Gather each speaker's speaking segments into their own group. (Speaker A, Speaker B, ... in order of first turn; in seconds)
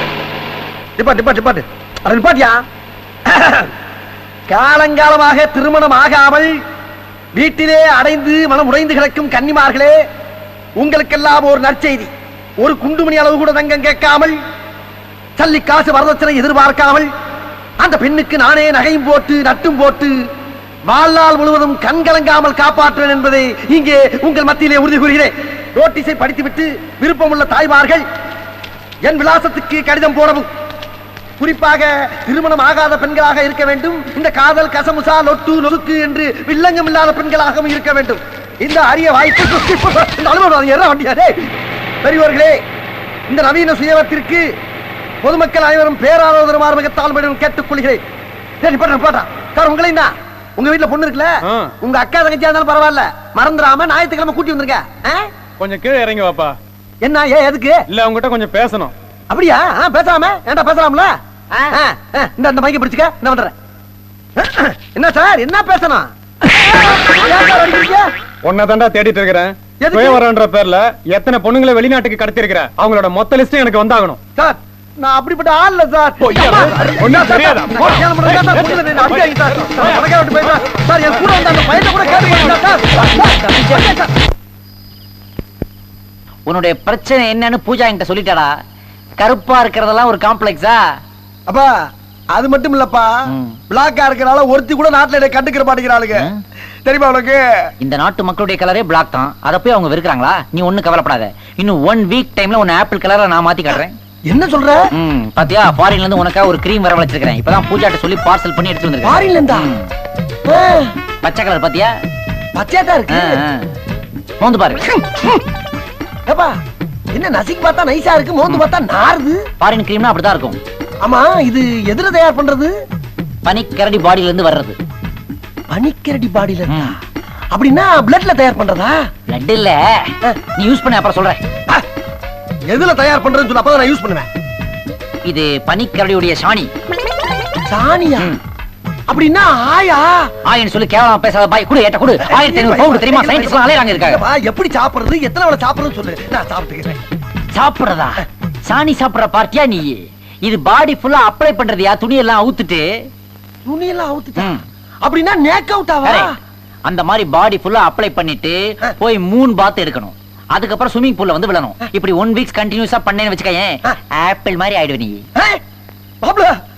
Speaker A: 1.0-2.5, 3.3-3.7, 4.5-6.5, 7.3-10.0, 10.8-14.3, 15.4-17.1, 17.8-20.1, 20.9-28.0, 29.0-30.5, 31.4-41.5, 42.0-42.6, 43.3-44.5, 45.2-48.0, 48.6-55.3, 57.0-57.8, 59.3-61.1, 61.7-63.5, 64.4-68.1, 69.8-70.2, 74.3-84.1, 92.3-93.1, 93.7-96.3, 96.8-97.4, 104.3-104.8, 109.0-109.7, 110.5-110.9, 112.5-113.4, 115.0-115.3, 116.3-116.5, 117.1-119.4, 121.0-122.7, 125.7-127.0, 127.5-129.0, 132.7-134.3, 137.7-138.3, 139.1-140.3, 142.1-147.0, 153.6-156.3, 166.2-166.5
Speaker B: 51.4-51.7, 55.6-56.5, 57.9-58.9, 68.4-74.2, 76.2-80.1
Speaker C: 86.5-88.5, 89.2-90.9, 93.3-93.6, 97.8-103.9, 104.9-109.9, 111.2-111.9, 113.1-113.7, 114.4-114.8, 119.6-120.6, 123.4-124.8, 126.7-126.9, 129.3-131.4, 135.2-136.7, 140.4-144.2, 147.5-153.1, 154.4-154.6, 156.0-156.3, 156.8-165.2